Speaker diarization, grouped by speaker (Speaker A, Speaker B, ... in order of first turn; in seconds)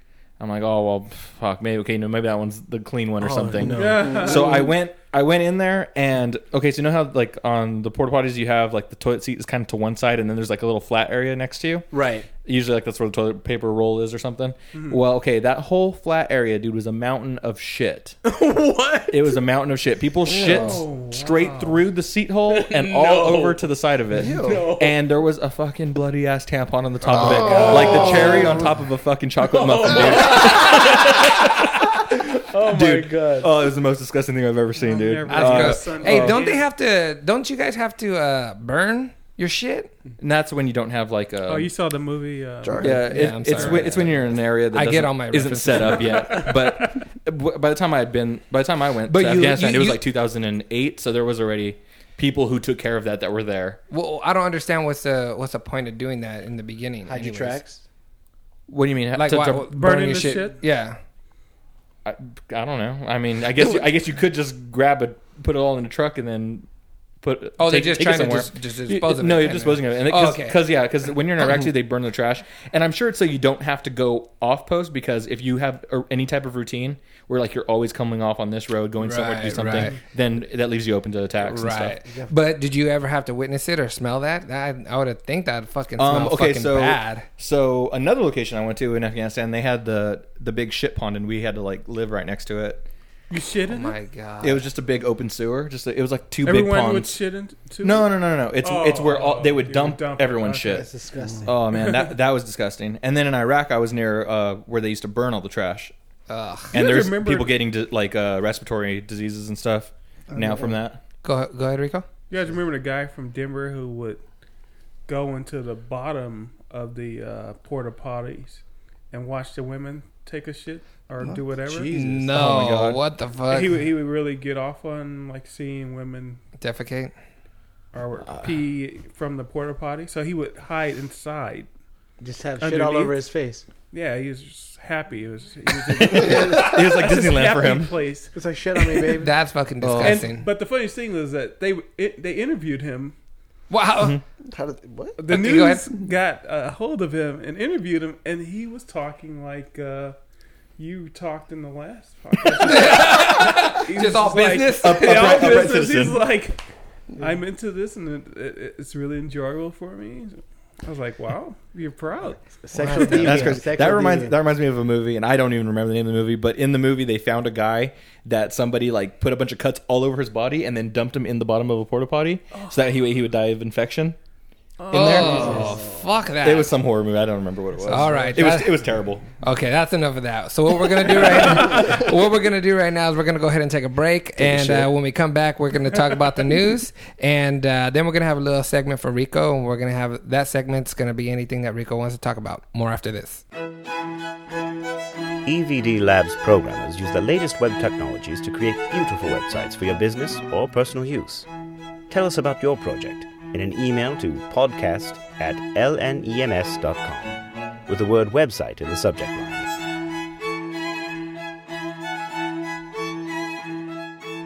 Speaker A: 0.4-11.9, 12.4-18.2, 19.1-36.5, 40.2-41.7, 42.8-53.8, 58.7-59.7, 62.0-66.7, 67.2-82.0, 86.0-92.9, 94.4-97.2, 97.8-100.9, 101.4-105.9, 106.7-111.0, 122.3-123.0, 136.0-137.9, 139.8-140.2, 154.7-156.3, 163.2-174.2, 174.9-175.6, 176.4-179.3
Speaker B: 3.2-4.7, 11.9-12.3, 18.2-19.4, 22.5-23.6, 24.2-25.0, 27.1-28.6, 29.4-31.5, 32.1-33.5, 57.0-57.8, 100.7-101.6, 121.8-122.3, 132.2-133.7, 138.3-139.3, 162.6-164.4
Speaker C: 3.6-4.7, 14.7-15.0, 20.4-21.8, 34.8-36.7, 41.4-43.9, 46.4-46.9, 59.7-60.6, 93.3-93.9, 96.4-100.8, 101.7-102.1, 106.7-107.5, 112.3-114.2, 115.1-121.9, 123.5-126.4, 127.9-131.7, 132.6-133.2, 133.9-138.3, 140.0-143.2, 145.2-150.2, 150.8-156.6, 157.2-163.2, 172.5-172.8, 174.8-175.8
Speaker D: 20.3-20.8, 24.1-24.7, 27.0-28.7, 42.6-43.0, 110.3-110.8, 144.5-145.2, 184.4-184.9
Speaker E: 35.3-39.9, 43.0-46.1, 49.1-50.0, 53.9-57.6, 59.1-61.0, 67.6-70.6, 79.0-80.0, 81.4-87.2, 93.7-94.6, 106.3-106.8, 111.2-112.0, 121.9-123.7, 126.6-127.1, 139.2-140.5, 143.7-144.2, 145.3-145.9, 152.6-155.5, 162.7-163.6, 174.9-176.7, 177.9-178.8, 179.4-193.4
Speaker F: 195.4-201.5, 202.1-209.8